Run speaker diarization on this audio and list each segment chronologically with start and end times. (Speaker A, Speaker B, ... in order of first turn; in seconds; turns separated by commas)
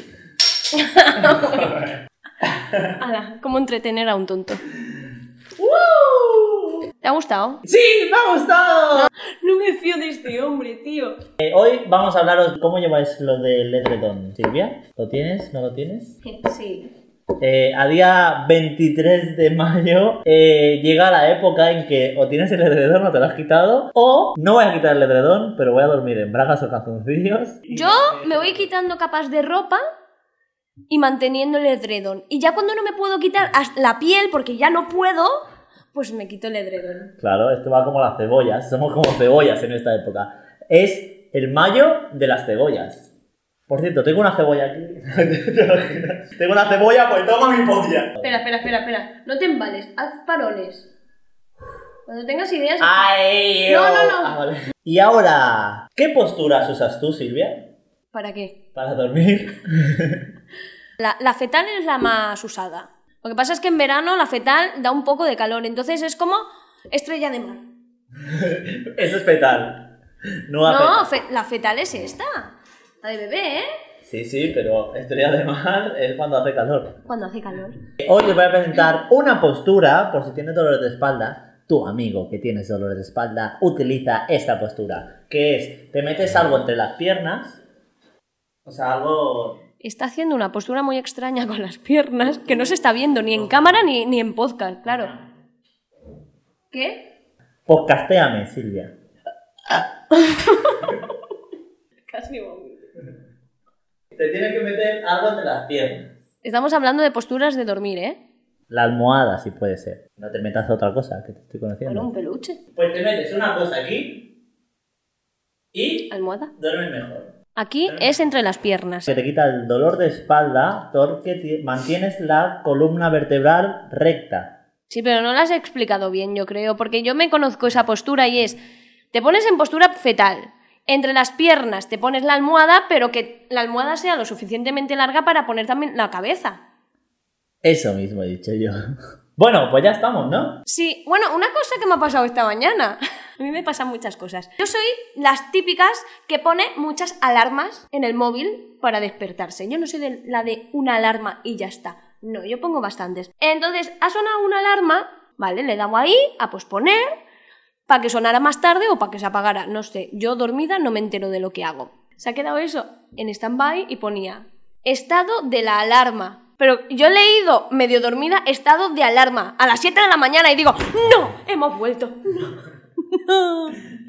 Speaker A: 0.7-1.8, Speaker B: 1.2-1.9, Speaker B: 2.4-3.0, Speaker A: 3.0-4.6, Speaker B: 5.6-6.9, Speaker A: 7.0-7.6, Speaker B: 7.6-9.1, Speaker A: 8.9-11.2, Speaker B: 11.4-16.2, Speaker A: 16.2-16.9, Speaker B: 17.4-28.7, Speaker A: 27.7-29.8, Speaker A: 30.9-35.3, Speaker A: 35.9-37.1, Speaker B: 37.2-43.1, Speaker B: 43.7-48.4, Speaker A: 48.2-50.9, Speaker A: 52.1-53.1, Speaker B: 52.8-57.7, Speaker A: 53.7-54.4, Speaker A: 58.1-58.6, Speaker B: 58.8-60.3, Speaker A: 61.0-67.7, Speaker B: 68.2-69.9, Speaker B: 70.5-71.1, Speaker A: 70.7-72.5, Speaker A: 73.0-73.7, Speaker B: 74.0-77.0, Speaker A: 77.1-77.8, Speaker B: 78.0-87.6, Speaker B: 88.7-89.6, Speaker A: 89.8-95.1, Speaker A: 96.7-97.1, Speaker B: 97.7-98.9, Speaker A: 100.1-101.0, Speaker A: 102.1-102.9, Speaker B: 104.2-106.1, Speaker A: 106.4-108.2, Speaker B: 108.7-112.1, Speaker A: 111.9-112.6, Speaker B: 112.8-114.3, Speaker B: 115.7-117.3, Speaker A: 116.1-116.5, Speaker A: 117.5-119.1, Speaker B: 117.9-118.2, Speaker B: 119.1-124.5, Speaker A: 124.9-128.6, Speaker A: 129.1-136.6, Speaker B: 137.6-138.8, Speaker B: 139.4-140.6, Speaker A: 140.7-157.1, Speaker A: 157.9-173.8